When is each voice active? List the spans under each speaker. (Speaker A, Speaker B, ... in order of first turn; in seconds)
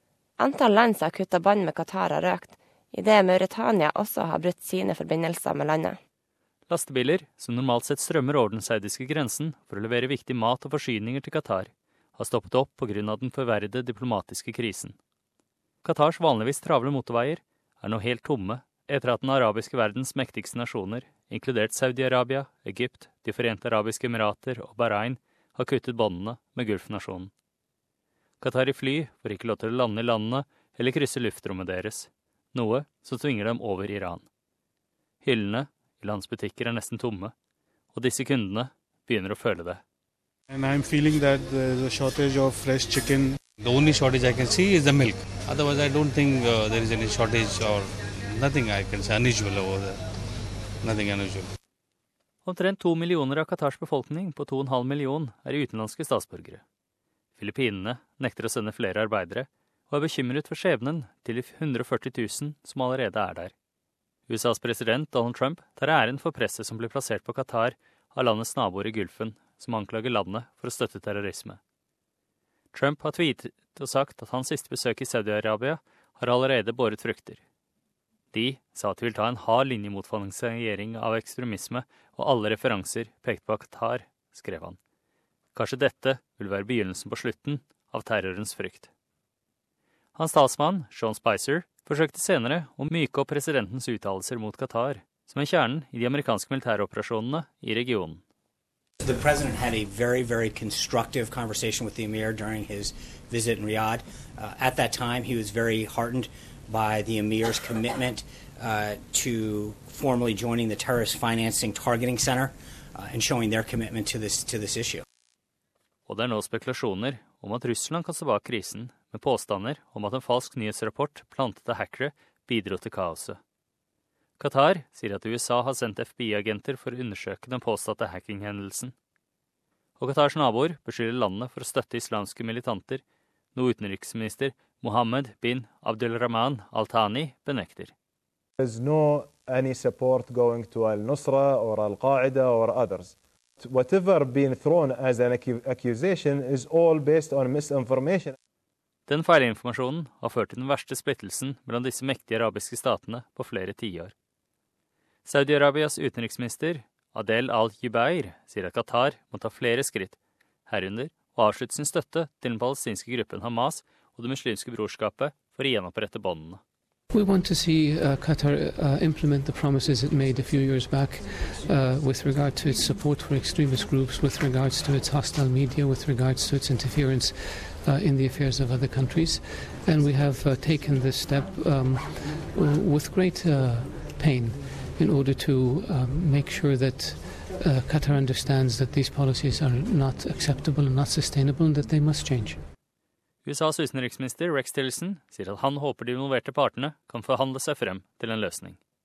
Speaker A: 0.4-6.0
Speaker B: 6.7-15.0, 15.8-27.3, 28.4-34.2, 35.2-37.3, 37.9-39.8, 52.5-56.6, 57.4-63.5, 64.3-71.6, 72.7-77.4, 78.3-84.8, 85.5-88.9, 90.2-98.2, 116.1-123.4, 124.4-128.9, 130.0-133.0, 133.6-137.9, 149.1-154.1, 155.2-166.6, 193.4-198.8
Speaker C: 40.5-43.4
Speaker D: 43.6-50.0, 50.8-51.5
Speaker E: 99.0-115.0
Speaker F: 138.6-148.3
Speaker G: 167.1-192.6